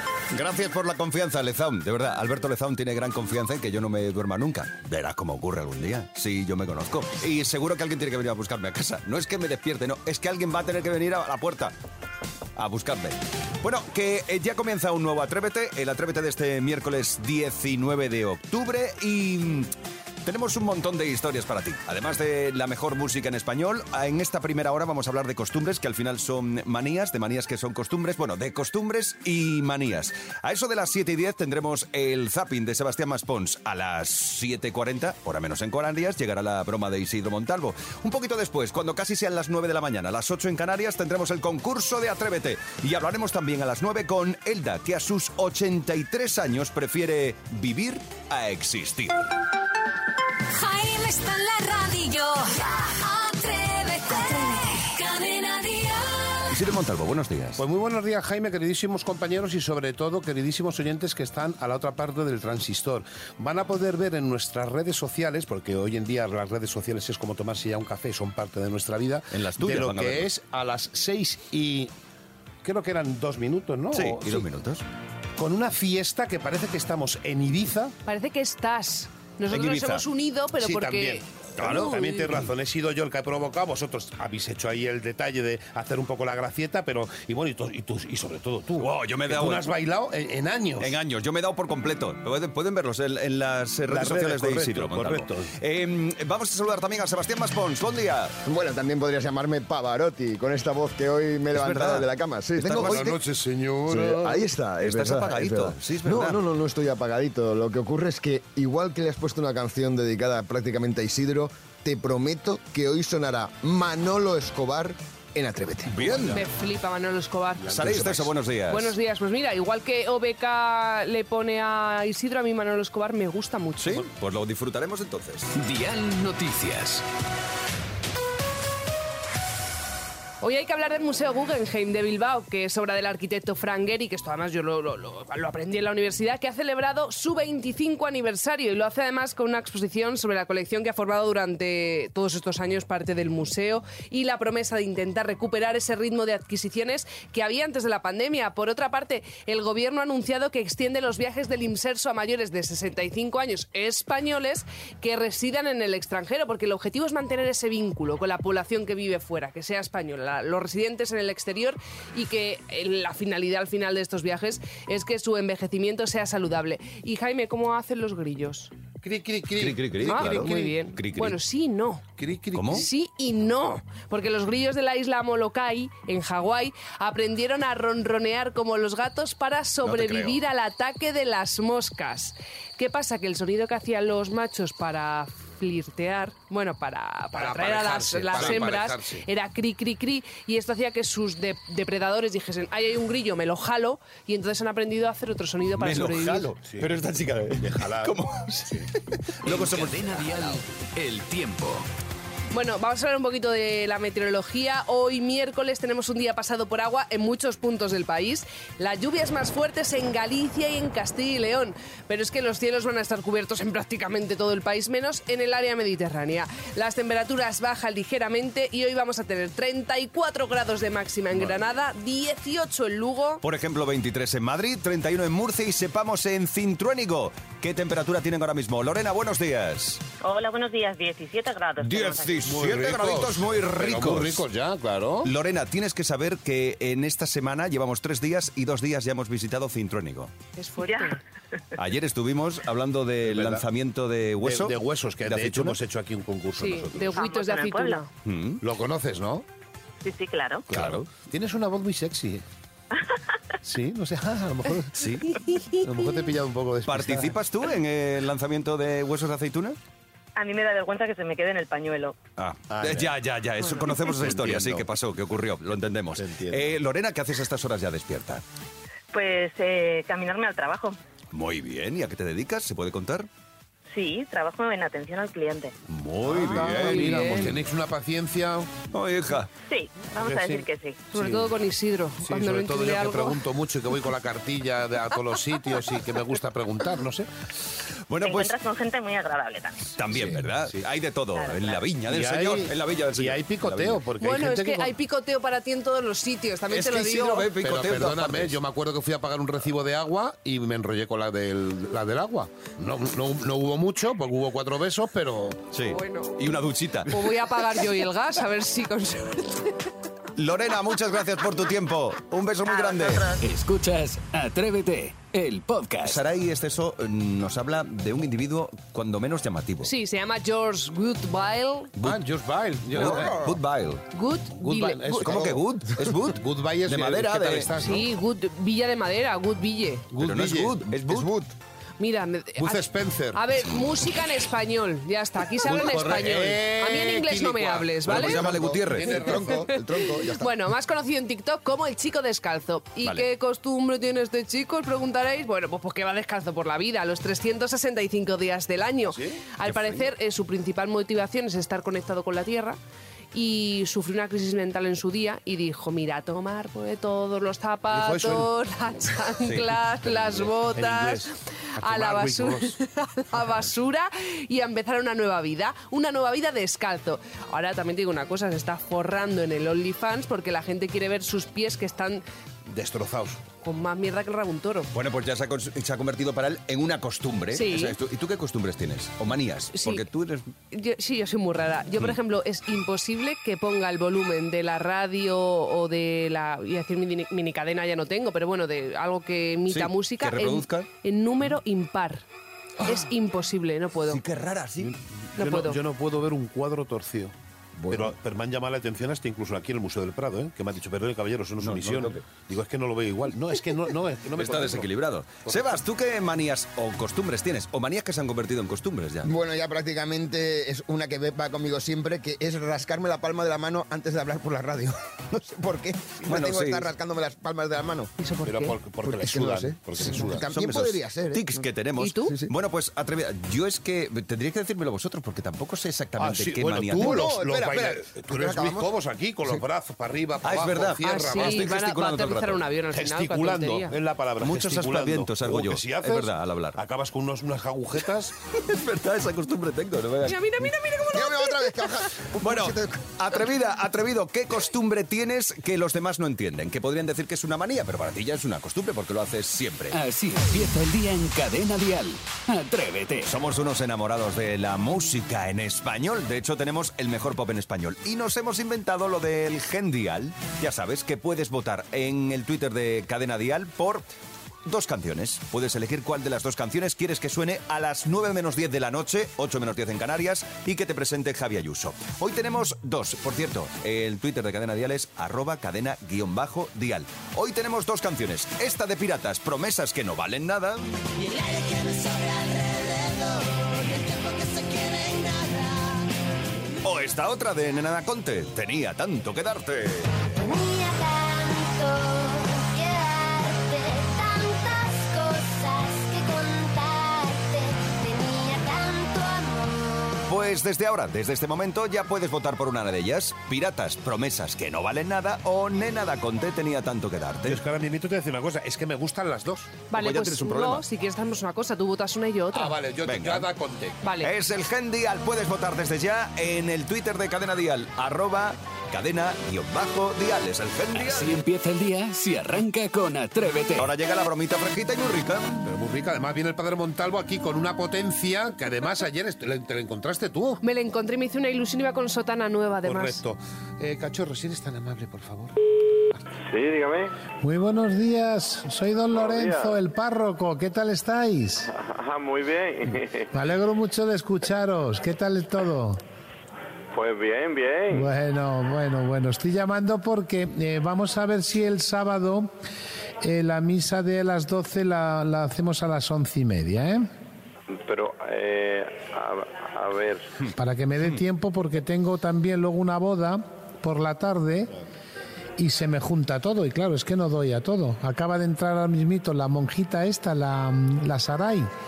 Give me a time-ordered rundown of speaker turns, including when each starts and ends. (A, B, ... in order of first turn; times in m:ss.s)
0:00.3-0:11.7 A
0:12.6-0:19.7 A
0:20.2-0:49.2 A
0:50.5-0:56.5 B
0:56.5-0:57.6 A
0:57.6-1:11.9 C
1:09.3-1:10.3 A
1:12.6-1:14.5 C
1:13.9-1:14.8 A
1:15.4-1:17.9 C
1:18.1-1:22.2 D
1:19.5-1:20.0 A
1:20.6-1:31.0 C
1:21.6-1:22.5 A
1:28.8-1:29.7 A
1:30.8-1:38.4 A
1:33.9-1:35.5 C
1:38.4-1:43.2 E
1:41.5-1:43.2 A
1:42.7-1:44.4 C
1:43.9-1:56.4 E
1:44.8-1:46.4 A
1:55.9-1:56.4 A
1:56.3-1:58.0 D
1:57.6-1:58.3 C
1:57.7-1:59.0 A
1:58.7-2:04.0 D
2:03.8-2:05.6 A
2:05.6-2:07.0 F
2:10.4-2:48.7 D
2:49.0-2:50.8 C
2:49.6-2:51.4 A
2:50.0-2:52.0 D
2:52.2-2:52.9 C
2:52.5-2:52.9 A
2:52.7-3:16.5 D
2:59.8-3:00.4 A
3:07.3-3:09.3 C
3:08.3-3:08.7 A
3:15.8-3:20.6 A
3:17.6-3:18.9 C
3:19.4-3:21.9 F
3:22.5-3:43.4 D
3:43.4-3:50.0 A
3:50.2-3:52.5 G
3:51.8-3:54.4 A
3:52.4-3:55.3 C
3:55.2-4:00.3 A
4:00.6-4:01.2 D
4:00.8-4:01.2 G
4:01.8-4:05.8 A
4:03.2-4:03.6 C
4:04.4-4:07.2 C
4:06.6-4:08.1 D
4:07.1-4:08.0 G
4:08.2-4:08.6 A
4:08.6-4:09.4 C
4:10.0-4:10.7 G
4:10.7-4:11.1 A
4:10.7-4:12.4 C
4:13.6-4:15.2 C
4:15.0-4:15.3 A
4:15.5-4:15.8 D
4:15.8-4:17.4 C
4:16.9-4:19.8 A
4:20.4-4:22.2 G
4:22.4-4:28.4 A
4:22.7-4:23.1 C
4:24.3-4:24.8 C
4:29.1-4:31.0 G
4:31.3-4:33.3 A
4:33.9-4:35.8 G
4:35.9-4:37.6 A
4:36.2-4:38.7 C
4:36.6-4:37.5 D
4:38.9-4:39.5 A
4:39.6-4:41.1 G
4:40.2-4:41.5 C
4:41.1-4:43.4 D
4:42.2-4:47.3 C
4:48.1-4:48.5 A
4:48.2-4:50.0 G
4:50.0-4:54.0 A
4:50.1-4:50.8 C
4:51.4-4:51.8 G
4:52.1-4:54.9 C
4:54.2-4:57.5 D
4:56.7-4:58.6 A
4:57.6-5:05.6 C
5:05.7-5:07.4 A
5:05.9-5:06.4 D
5:07.1-5:09.9 D
5:10.4-5:13.3 A
5:12.6-5:13.4 G
5:13.4-5:16.2 F
5:16.0-5:19.9 A
5:19.8-5:21.9 D
5:22.0-5:23.4 C
5:22.9-5:24.0 A
5:23.0-5:23.6 E
5:24.1-5:25.2 D
5:24.6-5:25.7 C
5:25.1-5:27.7 A
5:26.2-5:28.1 C
5:27.8-5:30.0 D
5:30.1-5:30.9 C
5:30.2-5:31.3 A
5:31.0-5:31.5 E
5:32.0-5:38.4 D
5:32.6-5:33.4 C
5:35.6-5:39.5 C
5:38.0-5:39.3 A
5:38.4-5:40.5 E
5:39.1-5:52.8 D
5:49.1-5:49.4 C
5:49.6-5:50.1 A
5:53.3-6:12.2 D
5:57.9-5:58.5 C
5:59.4-5:59.8 A
6:00.0-6:02.8 C
6:12.7-6:13.4 C
6:13.6-6:14.9 D
6:14.9-6:20.4 A
6:17.5-6:18.0 D
6:19.7-6:20.0 D
6:20.7-6:32.2 D
6:29.7-6:30.9 A
6:32.8-6:34.2 D
6:34.1-6:34.9 A
6:34.8-6:37.3 C
6:35.4-6:35.8 D
6:37.9-6:44.9 C
6:41.6-6:42.3 A
6:44.4-6:49.3 A
6:45.4-6:45.8 C
6:49.2-6:58.1 E
6:56.3-6:56.9 A
6:58.2-6:58.8 D
6:58.4-7:00.5 C
6:59.0-7:01.6 E
7:00.5-7:07.3 A
7:02.0-7:02.4 D
7:02.3-7:02.5 E
7:06.2-7:11.7 C
7:07.0-7:08.9 E
7:10.4-7:12.6 A
7:11.0-7:14.0 D
7:12.9-7:18.4 C
7:14.4-7:16.8 A
7:18.5-7:20.7 A
7:20.2-7:21.9 D
7:21.1-7:23.1 E
7:22.4-7:30.0 A
7:29.9-7:33.3 F
7:33.3-7:44.1 A
7:44.6-8:01.0 A
8:04.1-8:05.4 G
8:06.8-8:10.1 A
8:10.4-8:20.2 H
8:20.3-8:27.6 A
8:27.4-8:29.8 C
8:29.9-8:32.8 D
8:29.9-8:30.8 A
8:32.5-8:34.0 C
8:33.0-8:33.5 A
8:34.0-8:34.3 D
8:34.2-8:41.4 A
8:41.0-8:43.9 F
8:43.8-8:45.6 A
8:45.6-8:50.6 C
8:50.6-8:53.2 D
8:52.8-8:55.6 C
8:56.5-8:57.2 I
8:57.4-9:01.7 J
8:59.1-8:59.8 I
9:01.7-9:03.3 I
9:03.3-9:06.0 J
9:06.9-9:08.1 I
9:07.9-9:12.5 J
9:13.2-9:17.1 J
9:17.7-9:20.3 I
9:20.6-9:24.7 J
9:25.6-9:31.7 J